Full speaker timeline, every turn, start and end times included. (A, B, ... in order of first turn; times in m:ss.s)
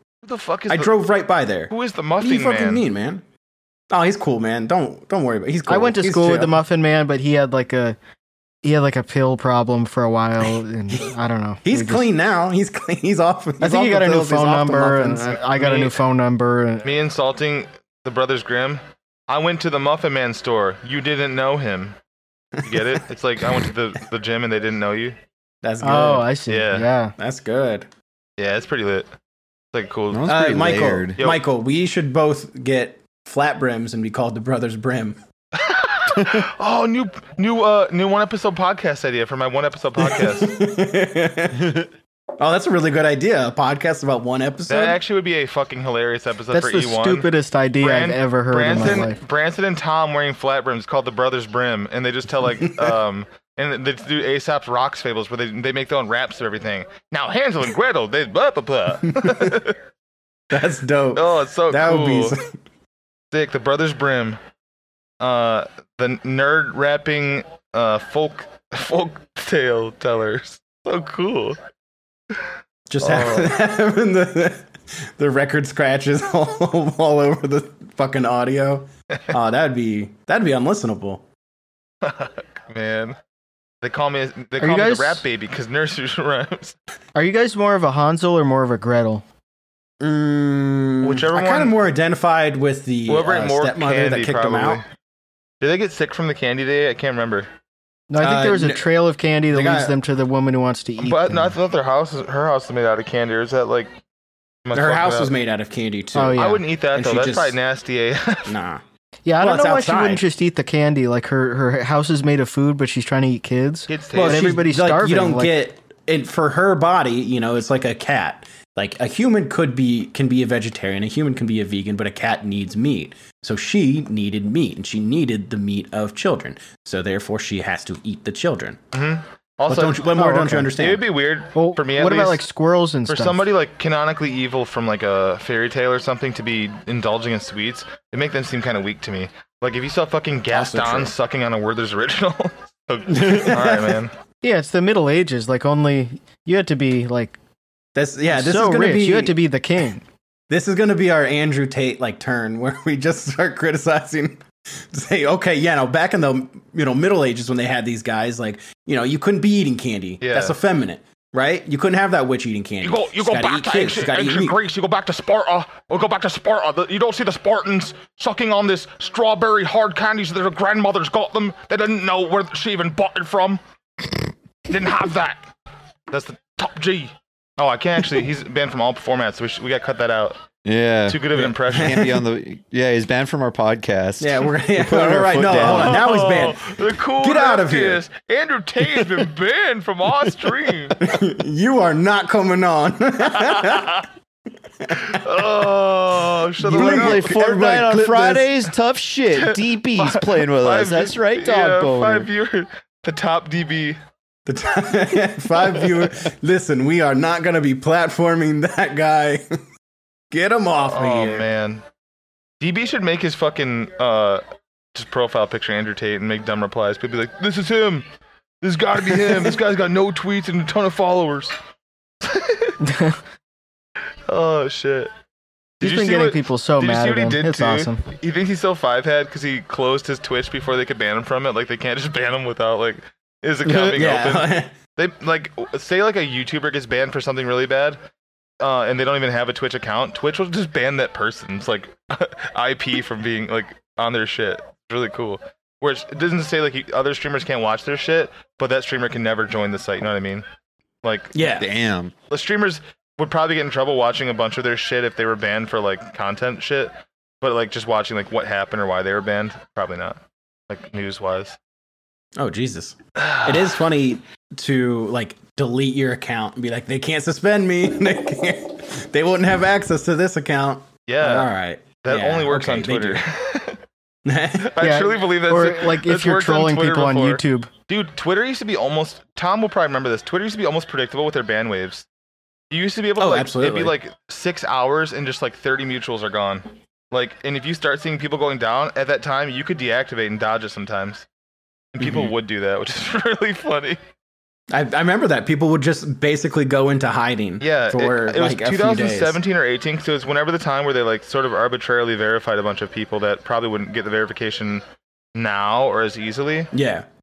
0:00.2-0:01.0 A
0:00.7-0:03.2 B
0:01.7-0:02.8 A
0:03.9-0:06.6 B
0:05.7-0:08.0 C
0:08.6-0:12.1 C
0:11.6-0:15.4 B
0:13.6-0:16.9 C
0:15.5-0:16.0 A
0:16.8-0:22.0 A
0:22.6-0:23.7 B
0:22.6-0:25.2 A
0:25.6-0:26.3 B
0:25.8-0:27.1 C
0:26.5-0:26.9 A
0:27.2-0:27.9 B
0:28.4-0:29.1 A
0:29.7-0:30.3 A
0:30.1-0:31.2 D
0:30.3-0:35.2 B
0:31.2-0:31.4 A
0:35.6-0:40.5 A
0:40.0-0:41.8 B
0:42.4-0:45.0 B
0:44.7-0:47.3 A
0:46.5-0:49.2 C
0:47.8-0:59.8 A
0:52.6-0:53.0 B
0:59.1-0:59.6 B
1:00.5-1:02.5 B
1:01.1-1:02.4 A
1:03.3-1:04.4 A
1:05.2-1:11.6 A
1:12.9-1:21.2 B
1:13.0-1:13.6 A
1:22.0-1:23.2 A
1:23.8-1:26.8 A
1:24.6-1:25.2 C
1:27.1-1:29.2 C
1:30.0-1:34.8 B
1:31.0-1:31.8 A
1:33.1-1:34.8 A
1:35.6-1:37.5 A
1:38.1-1:41.5 C
1:38.2-1:38.9 B
1:39.5-1:40.0 B
1:41.0-1:43.9 A
1:44.6-1:45.3 A
1:44.7-1:47.6 B
1:46.1-1:46.6 C
1:46.3-1:48.6 A
1:48.5-1:48.8 B
1:49.2-1:55.6 C
1:49.4-1:50.2 B
1:53.9-1:54.6 A
1:54.1-2:08.8 B
2:08.9-2:10.2 A
2:09.7-2:11.0 B
2:10.1-2:10.7 C
2:10.7-2:12.4 A
2:11.5-2:13.5 C
2:13.1-2:24.1 A
2:20.5-2:21.1 B
2:23.1-2:24.0 B
2:24.4-2:27.4 C
2:28.0-2:29.4 B
2:28.3-2:30.0 C
2:30.5-2:44.6 B
2:40.2-2:40.6 A
2:42.8-2:53.6 A
2:54.7-2:55.5 A
2:56.1-3:00.4 A
3:00.6-3:06.1 D
3:01.1-3:02.0 A
3:01.4-3:02.2 B
3:04.2-3:08.0 B
3:05.5-3:11.0 A
3:11.0-3:14.0 B
3:13.4-3:14.0 A
3:14.8-3:15.6 B
3:15.0-3:17.4 A
3:16.6-3:18.5 B
3:16.6-3:22.3 D
3:19.4-3:24.0 A
3:24.4-3:29.4 B
3:30.3-3:31.5 B
3:30.8-3:31.8 A
3:32.6-3:34.4 A
3:34.9-3:38.0 A
3:38.6-3:41.6 A
3:42.2-3:42.7 A
3:42.8-3:43.2 C
3:44.3-3:45.1 A
3:45.8-3:58.0 A
3:45.8-3:48.0 C
3:53.6-3:54.7 B
3:58.6-4:10.4 A
4:11.0-4:11.5 A
4:11.3-4:11.7 B
4:11.6-4:12.1 D
4:12.3-4:21.6 A
4:22.4-4:33.2 B
4:23.2-4:23.7 A
4:31.1-4:33.8 A
4:34.2-4:34.8 B
4:34.6-4:42.0 A
4:34.8-4:37.7 C
4:42.7-4:51.2 A
4:43.2-4:44.0 B
4:51.9-4:54.0 A
4:52.0-4:52.3 B
4:54.7-4:59.4 B
4:57.6-5:04.8 A
5:05.3-5:06.7 A
5:06.7-5:07.0 B